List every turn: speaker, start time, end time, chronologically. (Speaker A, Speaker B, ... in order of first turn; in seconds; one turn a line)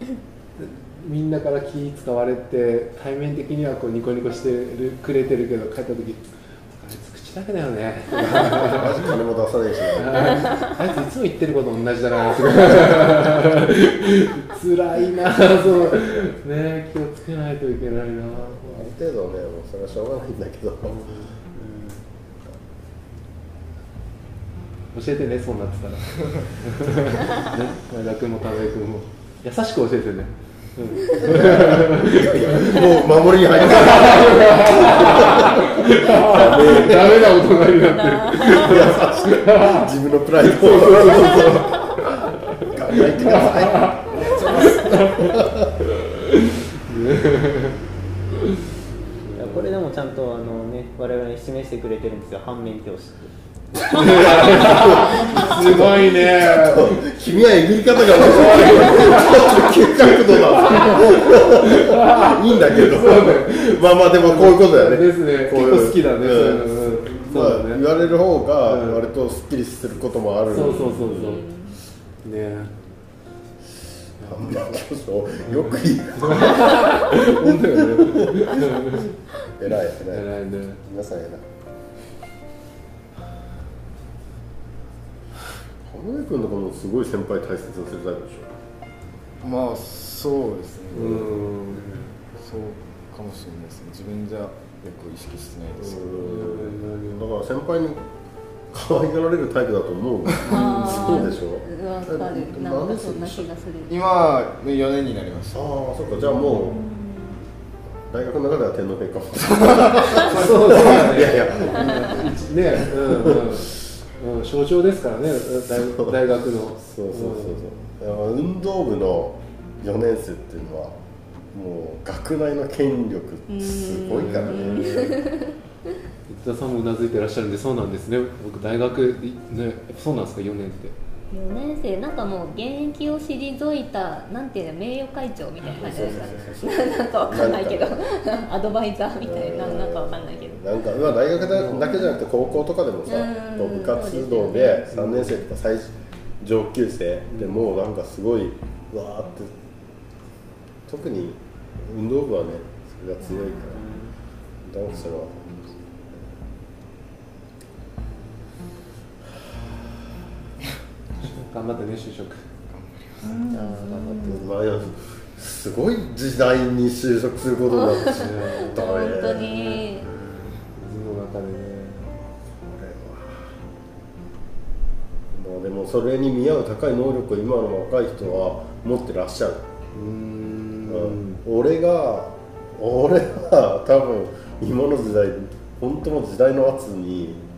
Speaker A: 0.6-9.2
Speaker B: 8.1-10.6
Speaker A: 10.0-18.9
Speaker B: 18.4-21.1
Speaker A: 20.9-21.6
Speaker A: 24.9-32.9
Speaker B: 31.1-37.4
Speaker A: 33.5-47.8
Speaker C: 37.8-38.8
Speaker B: 38.4-45.6
Speaker A: 49.2-49.6
Speaker D: 49.4-53.3
Speaker A: 53.9-57.3
Speaker B: 54.3-71.4
Speaker A: 58.1-59.7
Speaker A: 60.6-67.9
Speaker A: 68.6-69.0
Speaker A: 70.5-71.4
Speaker C: 70.5-71.8
Speaker A: 72.2-72.7
Speaker B: 74.2-80.3
Speaker A: 76.2-79.1
Speaker A: 80.1-80.8
Speaker B: 80.8-81.4
Speaker B: 85.8-88.5
Speaker E: 89.4-96.1
Speaker A: 90.9-92.1
Speaker B: 95.8-98.0
Speaker A: 96.2-97.2
Speaker B: 98.7-103.5
Speaker C: 100.5-104.0
Speaker E: 103.9-105.7
Speaker B: 105.5-106.8
Speaker C: 106.4-107.4
Speaker B: 108.1-112.3
Speaker A: 110.2-117.6
Speaker B: 112.8-113.4
Speaker B: 115.8-116.2
Speaker B: 116.8-121.0
Speaker B: 121.5-125.2
Speaker C: 123.5-125.6
Speaker A: 124.1-125.0
Speaker A: 126.3-130.9
Speaker C: 131.3-140.6
Speaker B: 135.7-138.0
Speaker B: 139.2-149.5
Speaker A: 141.5-141.9
Speaker C: 141.9-142.2
Speaker C: 143.1-144.9
Speaker A: 144.9-145.3
Speaker B: 150.9-154.0
Speaker B: 154.6-155.5
Speaker A: 161.2-162.4
Speaker E: 162.7-163.3
Speaker C: 163.2-164.5
Speaker D: 163.4-164.5
Speaker B: 164.2-169.6
Speaker C: 167.8-170.1
Speaker A: 168.1-168.7
Speaker A: 169.5-169.8
Speaker A: 170.7-172.2
Speaker B: 172.5-173.5
Speaker B: 175.3-179.6
Speaker A: 179.9-181.4
Speaker B: 180.9-187.4